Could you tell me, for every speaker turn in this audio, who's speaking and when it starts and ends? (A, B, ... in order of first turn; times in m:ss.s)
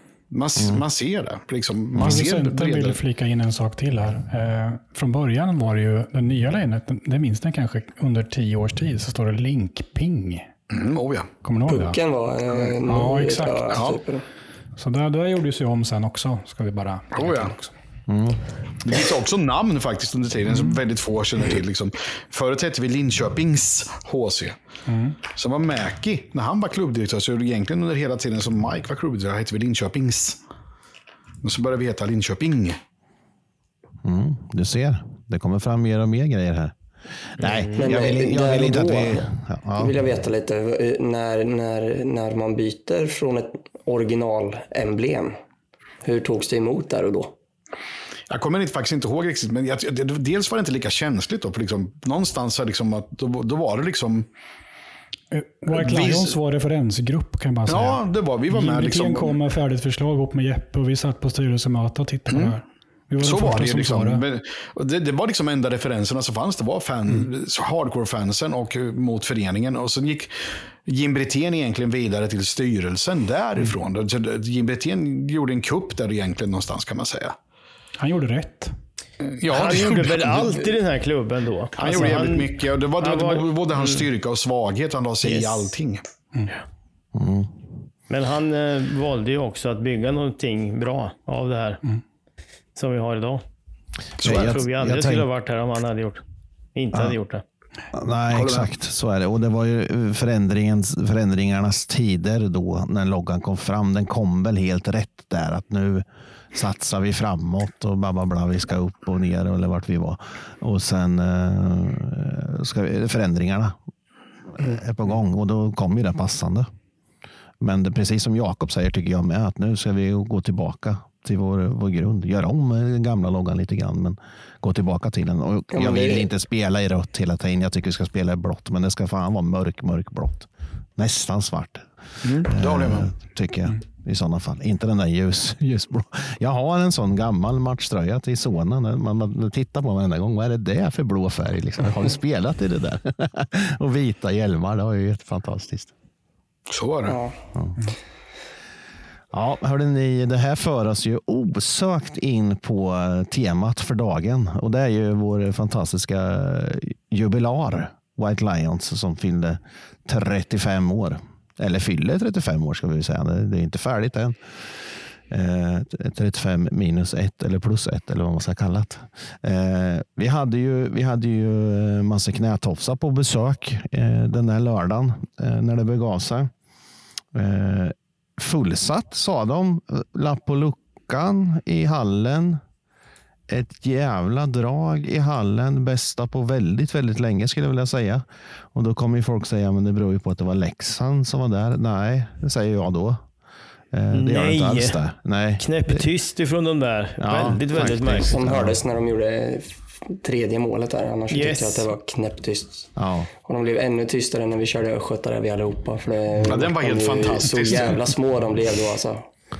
0:00.3-0:03.0 A
0:00.6-0:00.8 B
0:02.0-0:10.5 C
0:10.7-0:11.3 A
0:11.4-0:12.0 C
0:11.7-0:14.2 D
0:12.7-0:13.8 C
0:13.7-0:14.0 A
0:14.8-0:17.7 C
0:17.1-0:17.5 A
0:18.1-0:18.4 B
0:18.8-0:24.6 A
0:20.5-0:20.8 C
0:24.9-0:25.2 C
0:25.3-0:30.4 A
0:31.4-0:32.8 A
0:34.0-0:36.7 B
0:37.4-0:39.9 B
0:37.4-0:37.8 E
0:37.8-0:45.3 D
0:46.0-0:47.3 D
0:48.3-0:54.3 A
0:55.3-1:04.2 C
0:55.7-0:56.4 A
0:57.7-0:59.4 A
1:02.3-1:02.5 A
1:03.2-1:10.3 A
1:10.8-1:17.3 A
1:18.0-1:18.7 C
1:19.4-1:20.6 A
1:19.5-1:24.1 E
1:21.8-1:26.0 A
1:25.2-1:25.7 E
1:27.1-1:27.7 B
1:28.1-1:31.8 E
1:32.8-1:33.4 E
1:34.2-1:36.2 E
1:34.2-1:34.5 A
1:34.2-1:35.2 B
1:36.7-1:37.4 E
1:37.9-1:53.7 B
1:38.3-1:38.7 A
1:54.6-1:56.7 B
1:57.6-2:11.9 B
2:05.7-2:06.3 D
2:12.2-2:13.1 A
2:12.5-2:25.9 B
2:26.7-2:27.2 A
2:27.0-2:27.4 D
2:29.3-2:44.3 B
2:45.3-2:56.5 B
2:57.3-3:02.6 B
3:03.5-3:13.2 B
3:13.9-3:16.1 B
3:14.1-3:15.0 E
3:15.6-3:18.4 E
3:17.2-3:18.7 B
3:18.2-3:22.9 D
3:21.3-3:21.9 E
3:23.0-3:23.3 B
3:23.4-3:29.2 D
3:26.4-3:28.0 A